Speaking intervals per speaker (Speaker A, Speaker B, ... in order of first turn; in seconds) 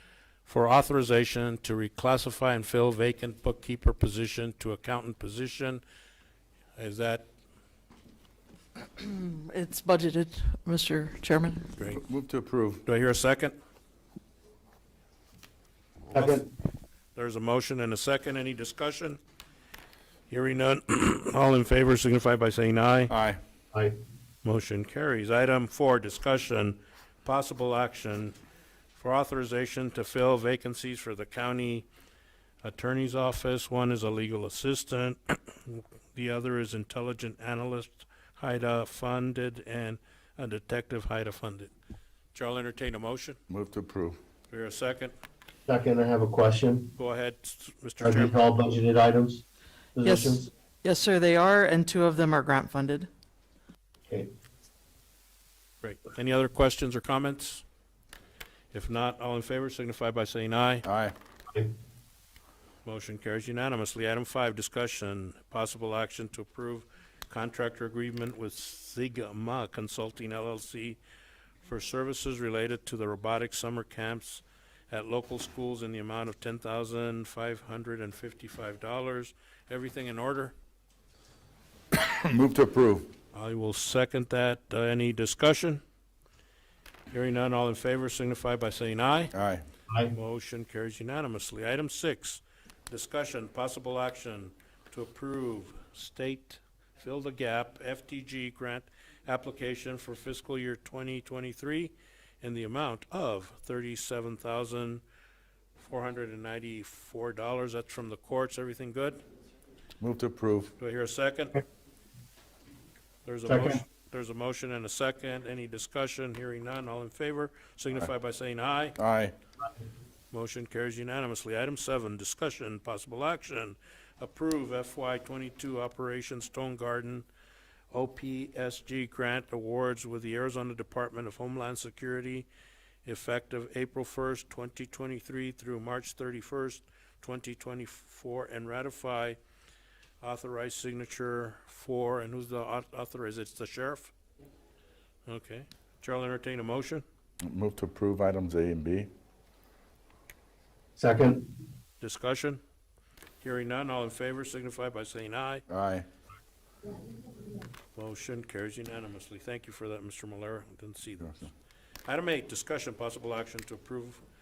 Speaker A: 0.4-5.8, 6.8-7.2, 11.8-12.0, 12.8-13.6, 16.1-16.4, 17.1-19.2, 20.3-23.1, 24.4-28.4, 28.9-31.9, 32.6-41.7, 42.3-43.4, 44.5-45.1, 47.0-48.3, 55.8-57.6, 58.7-60.8, 62.8-71.0, 71.6-80.5, 83.3-85.8, 87.1-89.3, 90.1-105.0, 105.8-109.2, 110.8-111.6, 113.2-119.0, 120.3-127.2, 127.9-132.5, 133.0-139.4, 140.2-144.1, 145.2-147.0, 152.0-152.6, 153.4-155.6, 157.9-161.5, 162.1-164.2
Speaker B: 9.0-11.7, 50.0-53.1
Speaker C: 11.9-12.8, 23.1-23.4, 43.5-44.2, 60.8-61.1, 81.9-83.1, 89.3-89.6, 110.0-110.7, 119.0-119.3, 147.4-149.1, 155.7-156.1, 161.2-161.5
Speaker D: 16.1-16.5, 45.7-46.9, 48.0-49.4, 50.0-50.5, 113.5-113.8, 151.0-151.6